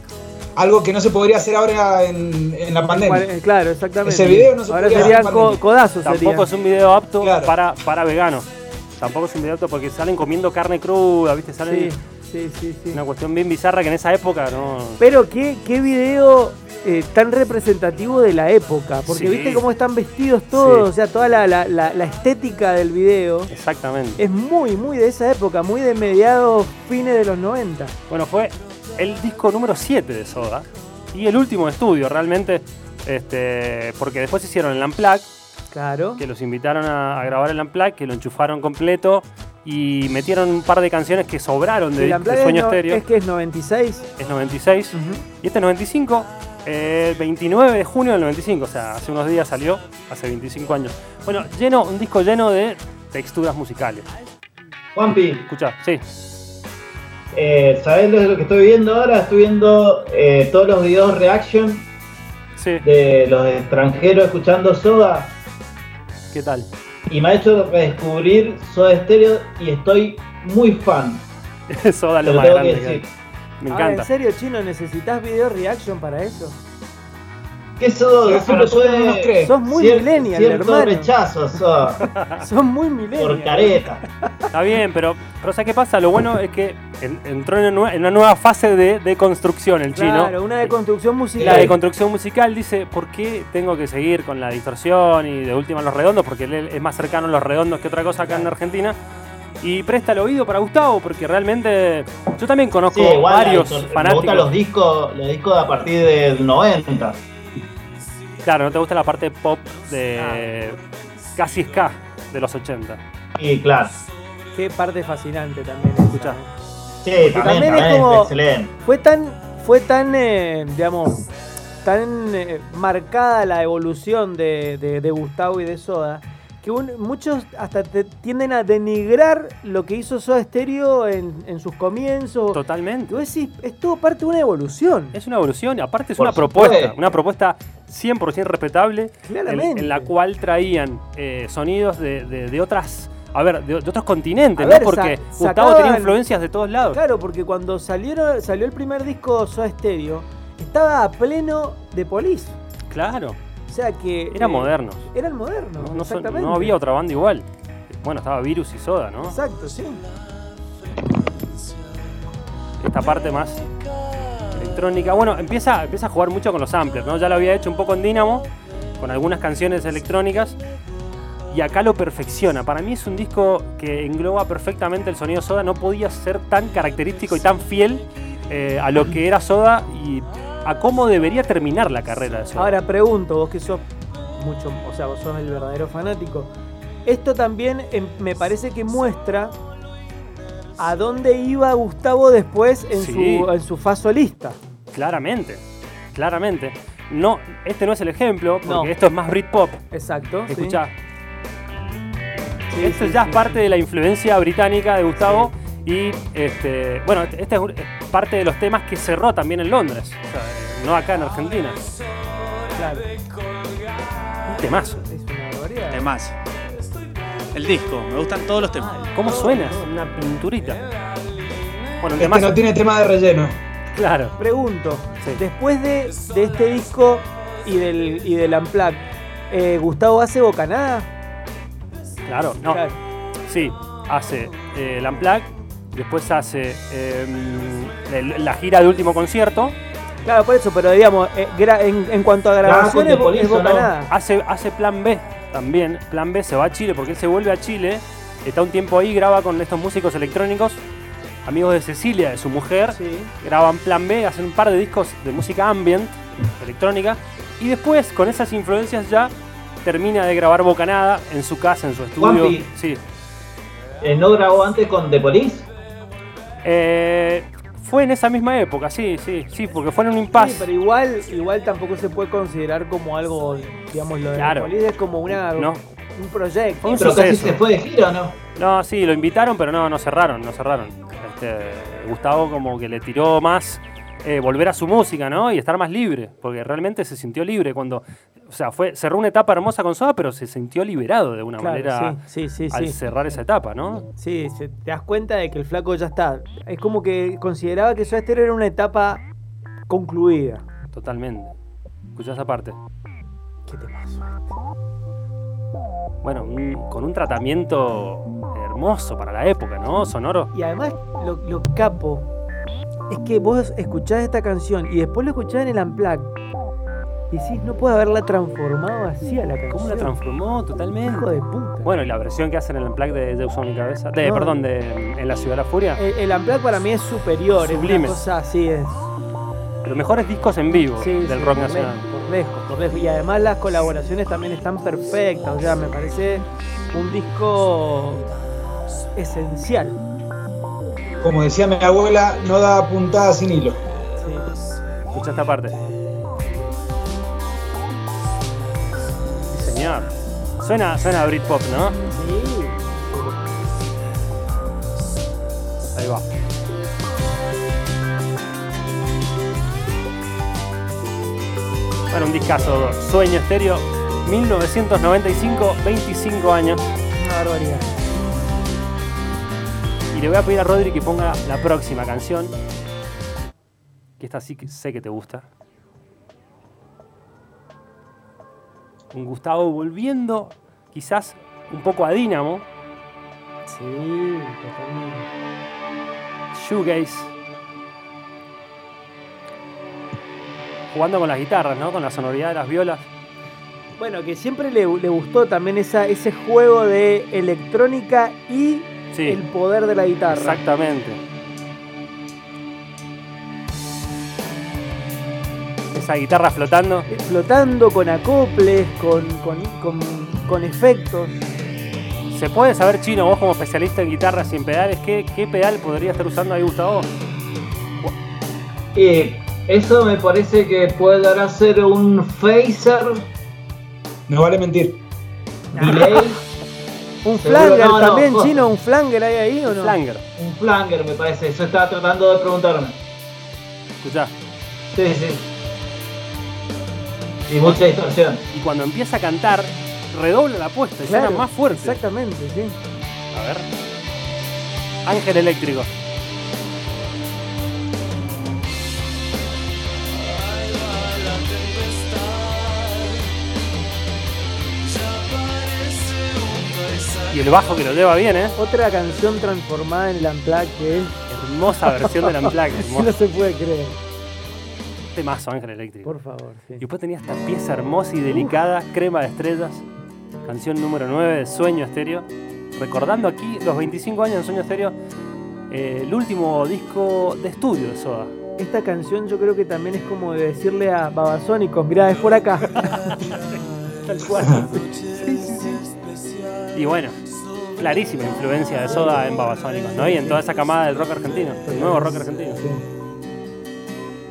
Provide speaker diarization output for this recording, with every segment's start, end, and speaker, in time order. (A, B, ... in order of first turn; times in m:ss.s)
0:00.6-0:03.3 A
0:02.8-0:06.5 B
0:04.0-0:05.6 A
0:06.0-0:12.0 C
0:07.2-0:07.5 A
0:11.7-0:13.0 B
0:12.9-0:15.0 C
0:15.0-0:23.5 B
0:19.0-0:19.6 C
0:20.5-0:20.9 C
0:23.5-0:24.2 C
0:24.2-0:28.0 B
0:28.1-0:35.3 C
0:35.7-0:36.2 B
0:36.2-0:43.0 C
0:42.0-0:44.1 B
0:44.2-0:54.1 C
0:44.9-0:45.2 B
0:55.0-0:55.5 D
0:55.5-0:56.0 C
0:57.3-1:01.9 D
1:02.6-1:02.8 C
1:02.8-1:05.4 D
1:06.3-1:06.7 C
1:07.1-1:11.2 D
1:11.7-1:13.1 C
1:12.2-1:13.1 D
1:13.6-1:14.1 C
1:13.7-1:16.6 B
1:17.8-1:22.1 D
1:18.2-1:19.6 A
1:19.4-1:21.1 B
1:22.0-1:22.4 C
1:22.4-1:24.5 B
1:23.2-1:24.0 D
1:24.5-1:30.7 C
1:29.9-1:31.7 B
1:31.4-1:39.0 C
1:31.4-1:31.7 A
1:39.6-1:44.6 C
1:42.9-1:47.2 D
1:48.4-1:50.8 C
1:50.2-1:50.5 B
1:51.4-1:53.0 C
1:53.4-1:54.0 D
1:54.5-1:56.5 B
1:56.1-1:56.4 C
1:57.0-1:58.7 D
1:57.2-2:01.3 B
2:01.8-2:15.2 B
2:12.5-2:13.2 C
2:15.1-2:27.0 C
2:16.2-2:17.0 D
2:19.2-2:20.1 B
2:24.6-2:26.2 B
2:26.9-2:32.6 B
2:32.9-2:33.4 C
2:33.7-2:36.8 B
2:34.3-2:35.0 C
2:35.8-2:39.4 C
2:39.3-2:40.0 B
2:42.8-2:43.7 C
2:44.5-2:48.5 C
2:49.0-2:50.6 C
2:51.5-3:02.8 C
3:02.6-3:06.5 B
3:07.0-3:09.6 B
3:10.8-3:14.6 B
3:12.9-3:13.5 C
3:14.9-3:15.6 C
3:16.1-3:19.8 C
3:18.6-3:18.9 B
3:19.9-3:20.8 B
3:20.5-3:20.9 C
3:22.7-3:23.6 B
3:22.7-3:31.8 C
3:25.2-3:25.5 B
3:32.7-3:33.1 B
3:34.5-3:35.1 C
3:35.1-3:36.1 B
3:35.9-3:36.4 E
3:37.5-3:39.1 E
3:39.0-3:39.6 B
3:39.1-3:40.8 C
3:42.0-3:42.6 C
3:42.2-3:43.6 A
3:43.9-3:44.4 C
3:44.4-3:51.1 B
3:52.2-3:52.8 C
3:52.7-3:53.0 B
3:53.5-3:59.8 C
4:00.2-4:04.1 B
4:02.6-4:03.9 D
4:04.1-4:10.8 C
4:11.4-4:19.3 C
4:12.9-4:13.3 B
4:19.8-4:23.0 C
4:22.2-4:22.7 D
4:24.0-4:25.7 D
4:26.6-4:30.7 C
4:30.3-4:37.1 B
4:34.4-4:34.7 C
4:35.6-4:35.8 C
4:36.8-4:37.6 C
4:37.0-4:38.4 D
4:38.6-4:54.1 C
4:51.6-4:53.0 B
4:54.2-4:59.2 B
4:59.9-5:00.7 B
5:00.9-5:01.5 C
5:02.2-5:02.8 C
5:03.7-5:04.5 B
5:06.2-5:10.5 C
5:10.5-5:12.3 B
5:13.1-5:16.3 B
5:17.3-5:20.2 B
5:19.7-5:21.3 C
5:21.0-5:21.9 B
5:21.8-5:26.0 C
5:24.2-5:24.6 B
5:26.0-5:29.1 B
5:27.6-5:28.2 C
5:29.8-5:32.1 C
5:31.0-5:38.3 B
5:39.2-5:40.0 B
5:41.2-5:43.8 A
5:44.2-5:44.5 B
5:45.1-5:45.8 C
5:49.5-5:50.1 C
5:50.6-5:52.0 C
5:52.1-5:53.6 B
5:56.0-5:56.3 C
6:02.1-6:06.8 C
6:07.2-6:08.0 B
6:10.1-6:12.6 C
6:14.2-6:15.5 C
6:19.1-6:22.7 C
6:23.7-6:25.3 B
6:26.5-6:27.3 C
6:30.9-6:33.1 C
6:34.0-6:40.6 B
6:39.1-6:39.4 C
6:40.3-6:41.2 C
6:45.9-6:47.1 C
6:47.1-6:51.4 B
6:52.3-6:57.1 C
6:59.0-7:03.3 D
7:04.3-7:05.0 A
7:05.7-7:06.3 B
7:05.8-7:06.4 D
7:07.2-7:10.0 B
7:07.3-7:08.6 D
7:09.7-7:10.2 C
7:10.4-7:13.0 D
7:14.0-7:14.3 C
7:14.9-7:15.5 D
7:17.5-7:18.4 D
7:17.6-7:17.9 C
7:18.5-7:22.0 C
7:21.0-7:22.8 B
7:23.3-7:23.7 C
7:25.0-7:25.9 C
7:37.3-7:38.6 C
7:38.6-7:41.2 B
7:41.3-7:43.1 C
7:41.8-7:44.0 B
7:45.1-7:46.1 C
7:46.0-7:46.8 B
7:46.8-7:49.9 C
7:50.4-7:55.0 C
7:55.7-7:58.3 C
7:58.6-8:03.3 B
8:03.1-8:03.4 C
8:04.0-8:05.9 C
8:06.7-8:07.2 C
8:07.8-8:12.6 C
8:08.9-8:09.3 B
8:10.0-8:10.4 B
8:11.6-8:12.8 B